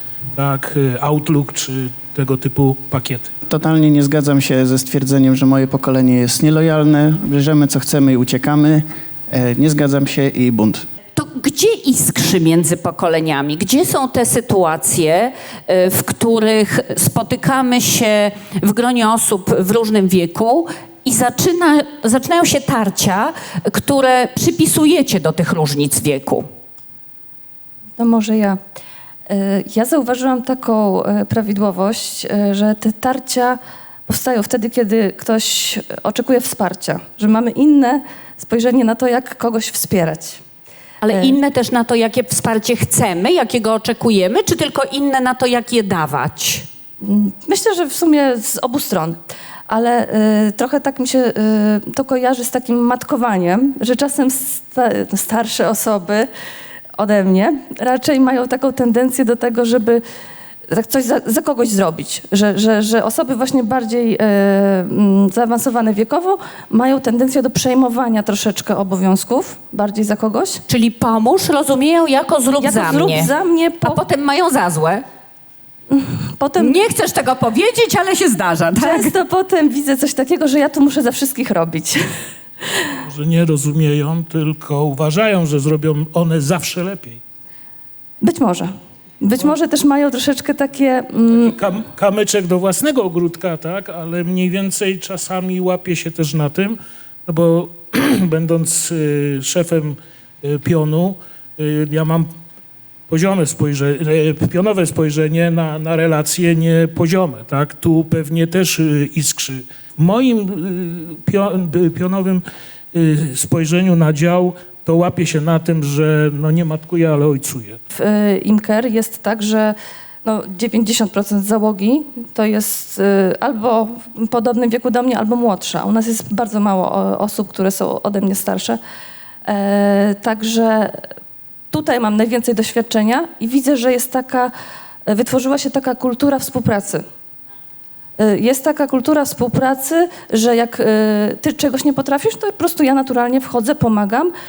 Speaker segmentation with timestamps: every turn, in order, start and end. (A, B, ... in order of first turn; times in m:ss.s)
0:00.3-0:03.3 A
0:03.5-0:10.8 B
0:11.1-0:26.4 C
0:28.0-0:28.6 D
0:29.3-0:40.4 D
0:41.0-0:46.6 C
0:47.0-0:56.3 D
0:57.0-1:00.0 D
1:00.7-1:10.6 D
1:10.7-1:13.3 C
1:12.6-1:14.0 D
1:13.8-1:15.0 C
1:15.9-1:16.8 D
1:16.6-1:19.1 C
1:18.8-1:22.0 D
1:22.6-1:23.0 D
1:23.1-1:27.2 A
1:28.2-1:28.7 D
1:29.2-1:31.5 D
1:31.4-1:42.3 A
1:43.1-1:57.8 A
1:57.9-1:59.7 D
2:00.2-2:08.8 D
2:09.5-2:11.0 D
2:11.7-2:14.5 D
2:15.1-2:17.0 D
2:18.2-2:24.3 D